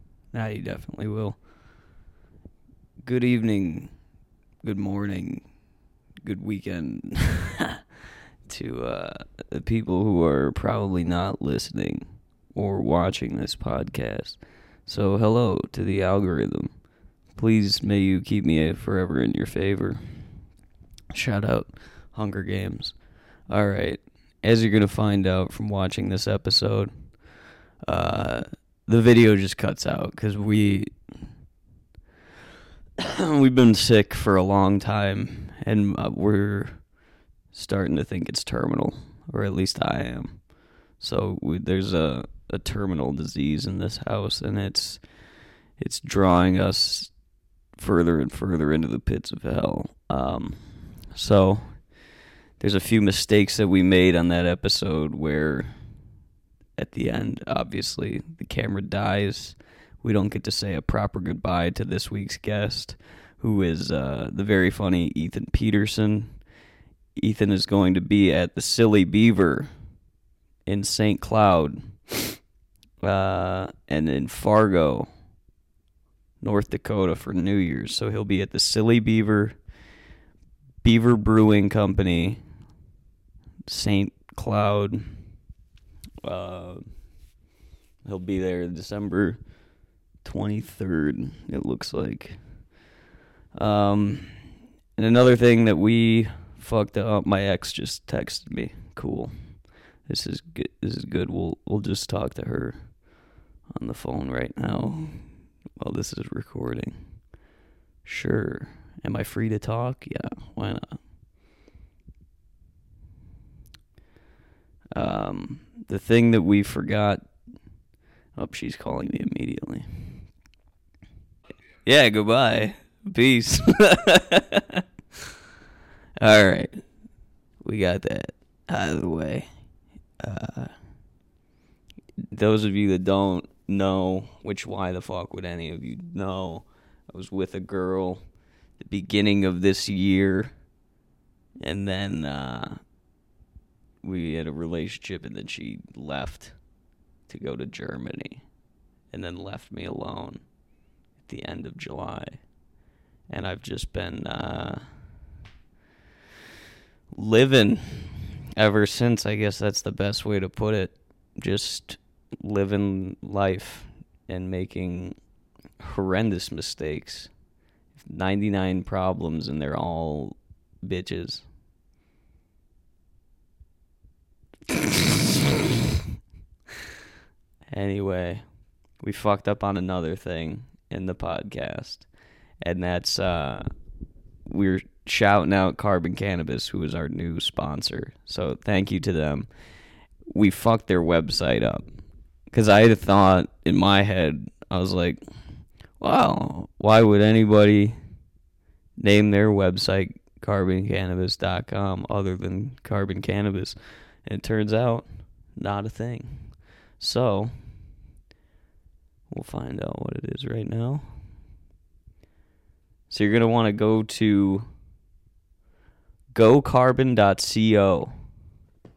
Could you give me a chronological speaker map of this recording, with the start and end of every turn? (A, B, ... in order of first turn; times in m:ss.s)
0:00.3-0:01.4 A
0:03.0-0:03.9 A
0:04.6-0:05.4 A
0:06.2-0:07.8 A
0:08.5-0:16.7 A
0:17.4-0:20.0 A
0:21.1-0:22.9 A
0:23.5-0:26.9 A
0:27.9-0:30.9 A
0:33.0-0:36.8 A
0:37.5-0:40.4 A
0:41.0-0:45.0 A
0:45.8-0:47.1 A
0:47.8-0:50.6 A
0:51.1-0:51.8 A
0:52.6-0:55.7 A
0:56.8-1:06.3 A
1:07.2-1:09.7 A
1:10.6-1:12.3 A
1:13.0-1:15.1 A
1:16.4-1:19.6 A
1:20.8-1:22.4 A
1:23.7-1:25.1 A
1:26.2-1:26.8 A
1:28.0-1:29.4 A
1:30.2-1:32.4 A
1:33.6-1:34.3 A
1:35.0-1:39.3 A
1:40.1-1:42.8 A
1:43.8-1:45.3 A
1:45.8-1:47.0 A
1:48.0-1:51.0 A
1:54.9-1:57.2 A
1:58.4-2:00.2 A
2:01.8-2:04.8 A
2:06.2-2:06.8 A
2:07.6-2:09.5 A
2:10.2-2:10.7 A
2:12.3-2:18.2 A
2:18.8-2:20.5 A
2:21.6-2:22.8 A
2:24.0-2:26.5 A
2:27.3-2:28.4 A
2:29.1-2:30.4 A
2:31.2-2:32.4 A
2:33.3-2:34.8 A
2:37.1-2:45.2 A
2:45.8-2:47.3 A
2:48.0-2:51.4 A
2:54.7-2:55.0 A
2:57.7-2:58.4 A
2:59.0-3:02.0 A
3:02.6-3:03.7 A
3:04.4-3:09.5 A
3:10.3-3:11.8 A
3:12.5-3:15.2 A
3:16.0-3:18.0 A
3:19.0-3:27.5 A
3:29.3-3:31.1 A
3:33.1-3:34.7 A
3:36.3-3:38.1 A